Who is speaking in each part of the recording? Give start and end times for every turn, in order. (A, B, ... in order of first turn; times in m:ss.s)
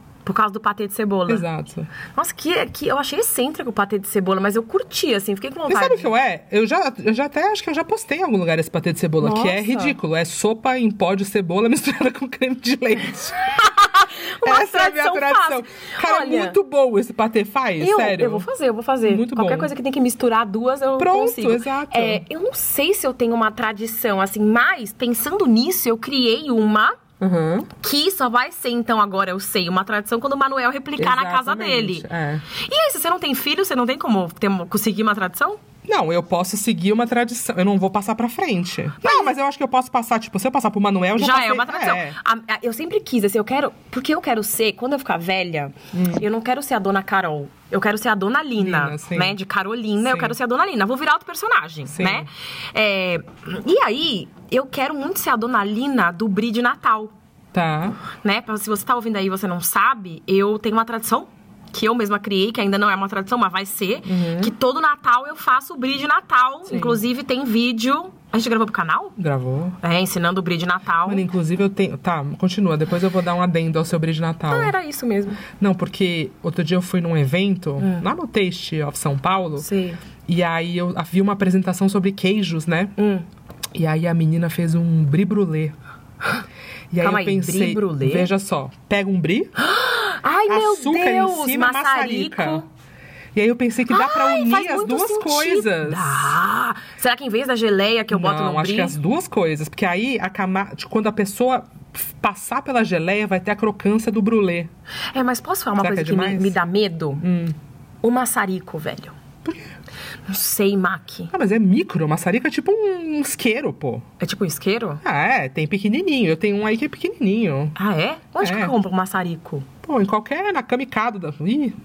0:00.2-0:01.5 A
0:01.3-0:01.9 B
0:02.2-0:06.1 A
0:05.7-0:13.5 B
0:09.2-0:10.0 A
0:13.6-0:16.6 A
0:14.4-0:18.5 B
0:17.8-0:27.0 A
0:19.0-0:19.7 B
0:21.0-0:22.2 B
0:27.2-0:27.7 B
0:27.8-0:35.6 A
0:31.0-0:32.4 B
0:35.8-0:42.2 B
0:39.0-0:39.4 A
0:41.2-0:57.1 A
0:45.9-0:46.2 B
0:48.6-0:49.4 B
0:50.0-0:50.4 B
0:51.9-0:52.3 B
0:57.5-0:58.0 B
0:58.2-1:09.2 A
1:04.0-1:04.5 B
1:06.7-1:07.0 B
1:09.2-1:09.8 B
1:09.8-1:11.3 A
1:11.1-1:14.7 B
1:14.5-1:15.4 A
1:15.6-1:19.7 B
1:17.8-1:18.1 A
1:19.6-1:20.0 A
1:20.3-1:23.0 B
1:23.0-1:23.2 A
1:23.8-1:25.7 B
1:26.9-1:29.5 B
1:27.0-1:28.3 A
1:29.6-1:32.7 A
1:30.5-1:32.6 B
1:33.4-1:36.4 B
1:33.9-1:39.0 A
1:38.1-1:44.7 B
1:45.1-1:47.2 A
1:45.8-1:46.6 B
1:47.2-1:47.6 B
1:48.0-1:49.2 A
1:49.4-1:49.7 B
1:50.3-1:51.3 A
1:51.3-1:54.0 B
1:54.2-1:55.0 A
1:55.0-1:57.8 B
1:57.8-1:59.7 A
1:58.4-1:58.7 B
1:59.8-2:01.8 B